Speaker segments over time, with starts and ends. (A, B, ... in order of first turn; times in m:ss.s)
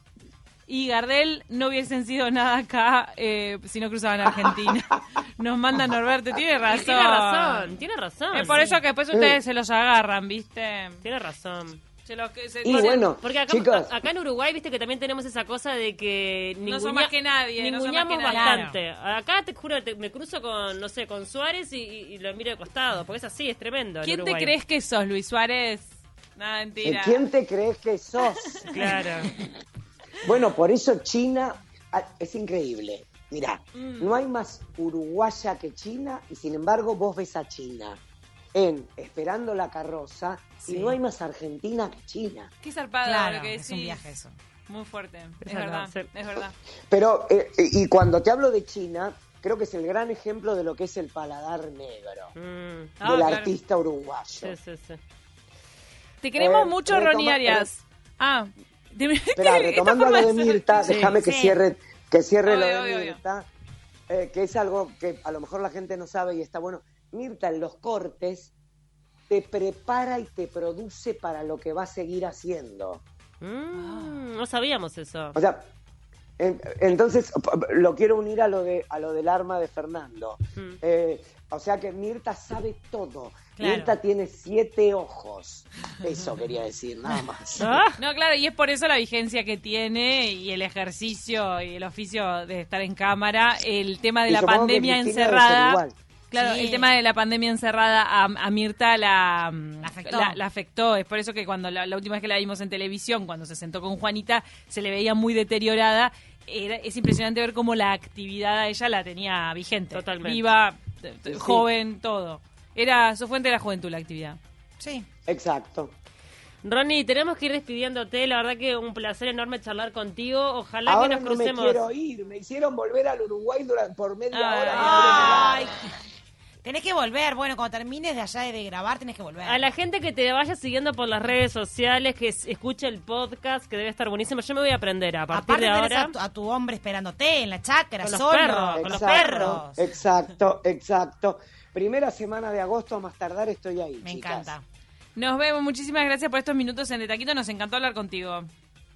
0:00.7-0:07.7 A
0:04.4-0:04.7 B
0:06.7-0:08.6 C
0:08.3-0:11.0 A
0:08.4-0:08.8 D
0:09.1-0:09.4 B
0:11.0-0:11.8 C
0:12.0-0:13.1 A
0:12.6-0:13.9 B
0:12.6-0:24.5 C
0:16.6-0:18.6 A
0:18.3-0:18.8 D
0:24.0-0:27.2 A
0:26.8-0:28.7 B
0:28.4-0:29.0 A
0:28.7-0:29.3 C
0:30.2-0:38.0 B
0:33.7-0:34.2 A
0:38.5-0:42.5 B
0:40.6-0:41.0 D
0:42.6-0:44.0 A
0:43.0-0:44.3 D
0:44.7-0:46.6 A
0:45.4-0:46.1 C
0:46.9-0:52.3 B
0:52.4-0:53.0 C
0:53.0-0:53.5 A
0:53.0-0:54.5 B
0:54.4-0:55.0 C
0:56.2-1:01.1 A
0:56.4-0:57.7 B
0:59.4-1:03.5 B
1:00.8-1:01.6 D
1:02.4-1:03.2 A
1:04.1-1:08.5 B
1:09.3-1:13.0 B
1:13.4-1:15.4 C
1:13.8-1:14.2 A
1:15.3-1:15.7 B
1:16.4-1:27.8 B
1:23.6-1:24.0 D
1:27.6-1:28.0 C
1:28.0-1:54.4 A
1:34.3-1:35.9 B
1:36.3-1:37.0 D
1:39.8-1:40.4 D
1:49.9-1:50.4 C
1:51.3-1:51.6 B
1:54.8-1:55.1 D
1:55.3-1:55.9 B
1:56.6-2:01.8 C
2:00.8-2:05.6 B
2:04.3-2:05.6 A
2:04.8-2:05.9 D
2:06.6-2:09.6 D
2:09.4-2:16.1 C
2:15.3-2:19.8 D
2:18.0-2:19.6 C
2:18.8-2:24.5 B
2:24.0-2:24.6 D
2:25.2-2:28.5 A